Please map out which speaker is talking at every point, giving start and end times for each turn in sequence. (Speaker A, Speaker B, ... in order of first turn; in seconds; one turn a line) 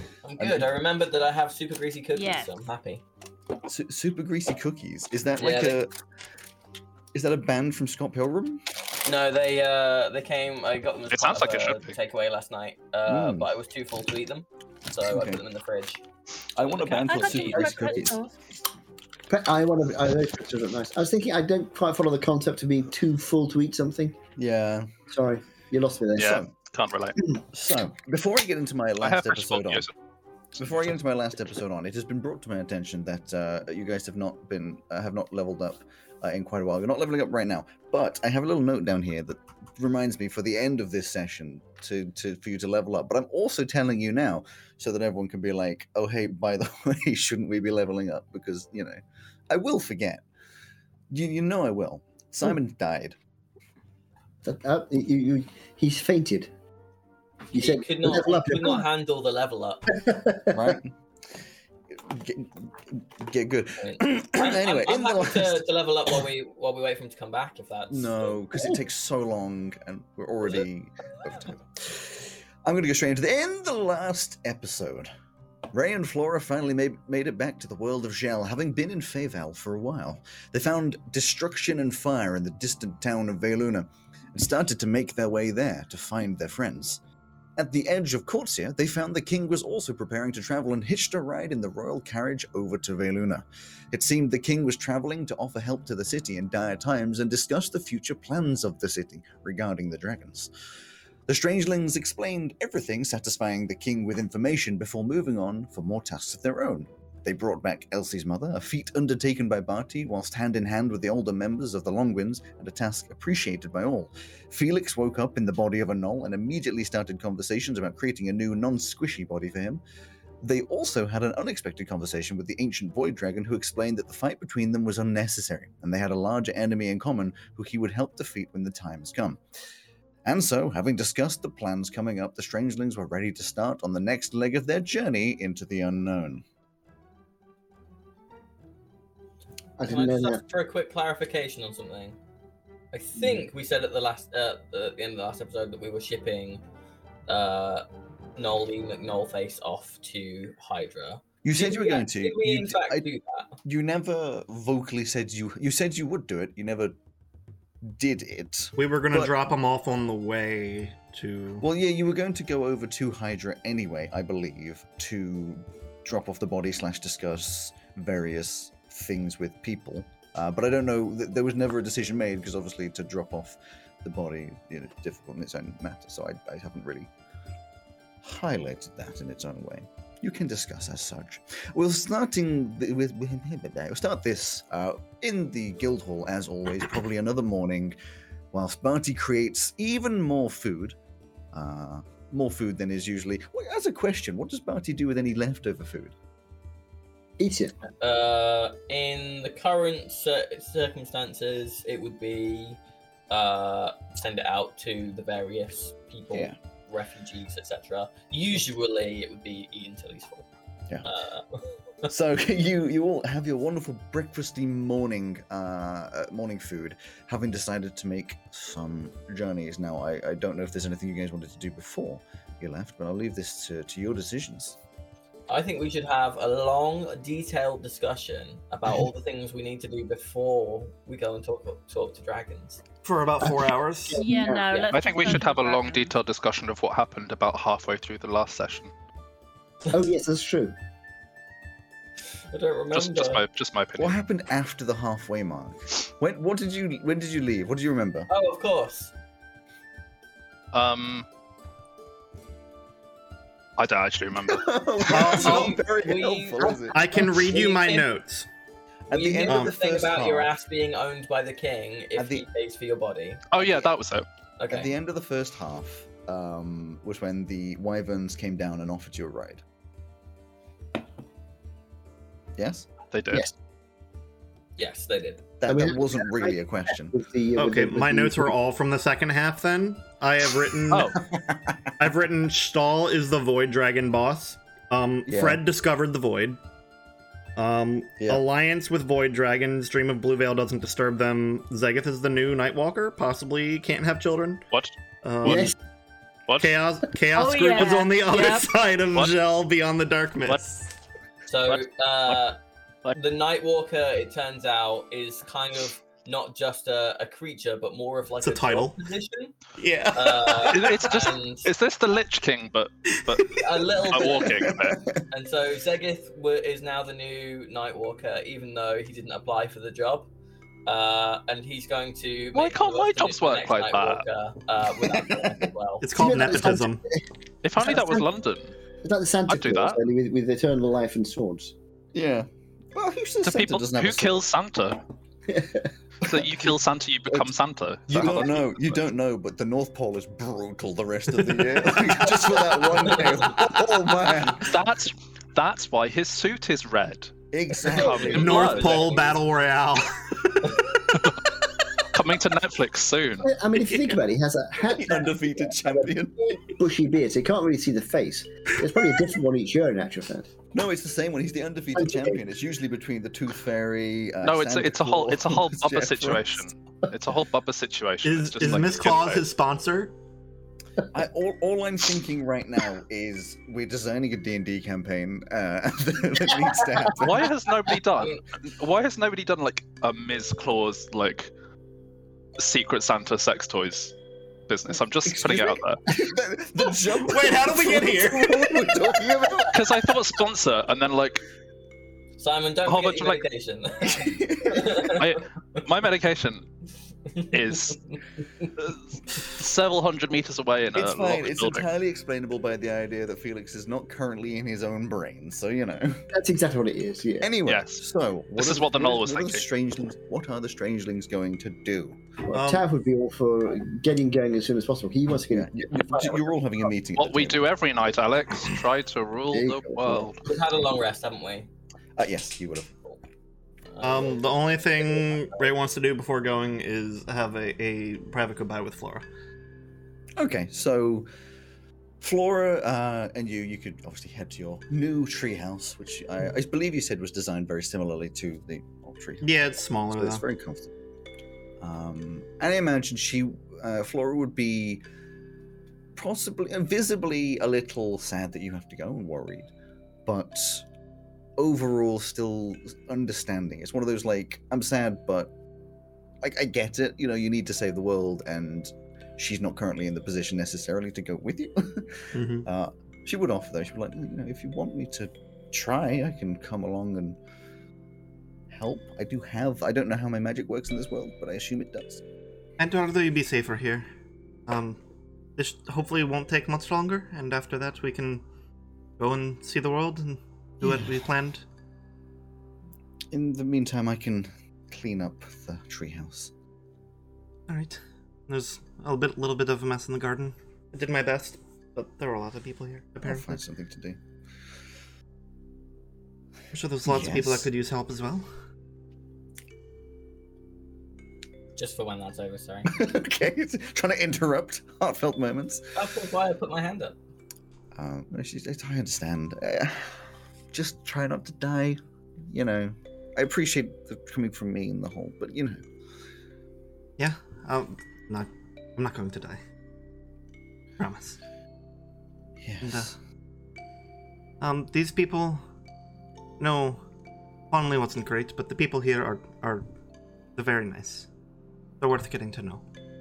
Speaker A: 0.2-3.0
Speaker B: 0.4-0.7
Speaker C: 2.2-2.6
Speaker B: 3.7-5.9
Speaker A: 5.4-5.8
Speaker B: 7.1-8.6
Speaker A: 9.0-16.0
Speaker D: 11.1-12.0
Speaker B: 13.1-13.5
Speaker B: 15.1-15.4
Speaker A: 16.6-18.0
Speaker B: 16.6-18.2
Speaker C: 17.0-18.4
Speaker E: 19.3-24.2
Speaker B: 24.4-24.9
Speaker E: 25.1-26.4
Speaker D: 26.2-27.2
Speaker B: 26.2-26.5
Speaker B: 27.5-29.9
Speaker D: 29.0-29.9
Speaker B: 30.6-50.2
Speaker B: 51.1-53.2
Speaker E: 54.4-56.5
Speaker E: 57.5-58.9
Speaker A: 57.5-59.9
Speaker E: 59.9-60.7
Speaker B: 60.5-61.0
Speaker B: 61.9-65.6
Speaker A: 63.8-68.4
Speaker B: 67.9-75.1
Speaker B: 75.7-87.0
Speaker B: 87.6-100.5
Speaker B: 101.3-119.8
Speaker B: 120.4-129.4
Speaker B: 130.2-136.4
Speaker E: 139.8-140.4
Speaker A: 139.8-142.2
Speaker A: 142.9-146.6
Speaker A: 147.3-147.8
Speaker A: 148.4-153.5
Speaker B: 151.4-153.1
Speaker B: 153.6-157.0
Speaker B: 157.8-159.4
Speaker F: 158.8-161.6
Speaker B: 161.6-177.1
Speaker B: 178.2-188.0
Speaker B: 188.5-191.0
Speaker B: 191.5-196.2
Speaker E: 197.4-197.8
Speaker A: 198.0-210.5
Speaker A: 211.0-212.1
Speaker B: 212.1-224.8
Speaker A: 225.5-232.8
Speaker F: 233.0-234.2
Speaker E: 233.4-235.4
Speaker C: 234.1-236.1
Speaker D: 234.8-238.9
Speaker E: 239.9-240.8
Speaker A: 242.5-243.4
Speaker D: 242.9-244.2
Speaker B: 244.0-248.3
Speaker A: 248.3-249.1
Speaker D: 250.7-251.3
Speaker D: 253.8-254.7
Speaker B: 254.5-257.0
Speaker F: 255.0-255.7
Speaker A: 255.1-258.1
Speaker F: 256.9-258.5
Speaker B: 259.1-260.5
Speaker A: 259.1-263.8
Speaker F: 259.5-259.7
Speaker B: 262.2-262.4
Speaker D: 263.5-264.2
Speaker A: 264.6-264.9
Speaker B: 264.7-269.6
Speaker B: 272.6-272.9
Speaker D: 273.1-273.5
Speaker A: 274.8-275.4
Speaker B: 275.6-277.2
Speaker E: 275.7-278.6
Speaker F: 277.6-281.2
Speaker D: 280.9-281.3
Speaker B: 281.3-281.9
Speaker F: 282.0-286.6
Speaker B: 285.3-285.6
Speaker F: 287.6-294.6
Speaker F: 295.2-295.8
Speaker E: 295.4-295.8
Speaker D: 296.5-296.7
Speaker F: 296.6-300.8
Speaker C: 297.3-298.7
Speaker A: 301.5-302.6
Speaker D: 301.6-302.4
Speaker A: 303.1-309.5
Speaker F: 308.4-309.0
Speaker F: 309.8-310.9
Speaker A: 310.1-311.7
Speaker D: 310.7-315.0
Speaker A: 313.4-314.5
Speaker B: 314.1-315.2
Speaker A: 315.3-320.3
Speaker A: 320.9-326.1
Speaker D: 322.5-324.2
Speaker F: 326.0-327.0
Speaker E: 326.1-327.2
Speaker D: 327.6-328.7
Speaker E: 327.8-328.3
Speaker E: 329.0-331.7
Speaker D: 329.5-330.0
Speaker B: 332.1-334.4
Speaker D: 333.4-335.0
Speaker E: 335.5-335.9
Speaker D: 336.2-339.0
Speaker B: 338.1-344.8
Speaker A: 343.2-343.4
Speaker D: 344.5-347.3
Speaker B: 347.5-348.8
Speaker A: 347.8-349.4
Speaker D: 347.9-349.1
Speaker F: 348.2-350.8
Speaker D: 351.1-351.4
Speaker D: 352.1-353.5
Speaker E: 353.4-360.5
Speaker B: 354.8-356.5
Speaker B: 360.7-366.6
Speaker E: 361.9-362.4
Speaker D: 364.4-369.5
Speaker F: 368.2-370.1
Speaker B: 371.1-377.5
Speaker D: 377.2-381.5
Speaker D: 382.6-384.1
Speaker D: 384.7-386.0
Speaker B: 385.2-390.2
Speaker F: 387.2-389.1
Speaker D: 389.7-391.4
Speaker A: 392.4-395.8
Speaker D: 392.8-393.4
Speaker B: 394.0-395.1
Speaker D: 395.0-396.6
Speaker A: 397.3-398.0
Speaker D: 397.5-398.1
Speaker D: 398.8-401.9
Speaker B: 400.9-406.2
Speaker E: 406.3-407.5
Speaker B: 407.4-412.2
Speaker D: 407.6-408.0
Speaker D: 408.6-409.7
Speaker E: 412.4-416.4
Speaker F: 412.5-412.9
Speaker B: 415.5-417.6
Speaker D: 417.1-420.5
Speaker E: 419.5-420.3
Speaker A: 420.4-421.7
Speaker B: 422.2-422.9
Speaker A: 423.9-425.6
Speaker F: 424.0-429.2
Speaker B: 430.4-431.3
Speaker B: 432.2-440.9
Speaker F: 439.4-440.4
Speaker B: 441.8-445.0
Speaker B: 446.1-449.7
Speaker B: 450.2-450.9
Speaker B: 451.6-455.5
Speaker B: 456.4-467.4
Speaker F: 462.3-462.7
Speaker B: 468.7-472.2
Speaker F: 472.8-474.1
Speaker F: 474.7-475.0
Speaker F: 475.6-478.4
Speaker F: 479.2-481.6
Speaker B: 483.3-486.5
Speaker F: 487.7-493.6
Speaker B: 493.2-494.2
Speaker F: 496.7-498.5
Speaker B: 497.0-497.7
Speaker A: 501.8-502.9
Speaker B: 502.9-505.8
Speaker A: 505.9-507.2
Speaker B: 507.9-515.8
Speaker F: 517.2-519.6
Speaker F: 521.0-521.4
Speaker B: 522.6-523.2
Speaker F: 522.8-523.1
Speaker F: 524.6-525.6
Speaker F: 526.6-527.0
Speaker F: 527.7-529.9
Speaker F: 530.6-531.3
Speaker F: 532.0-532.8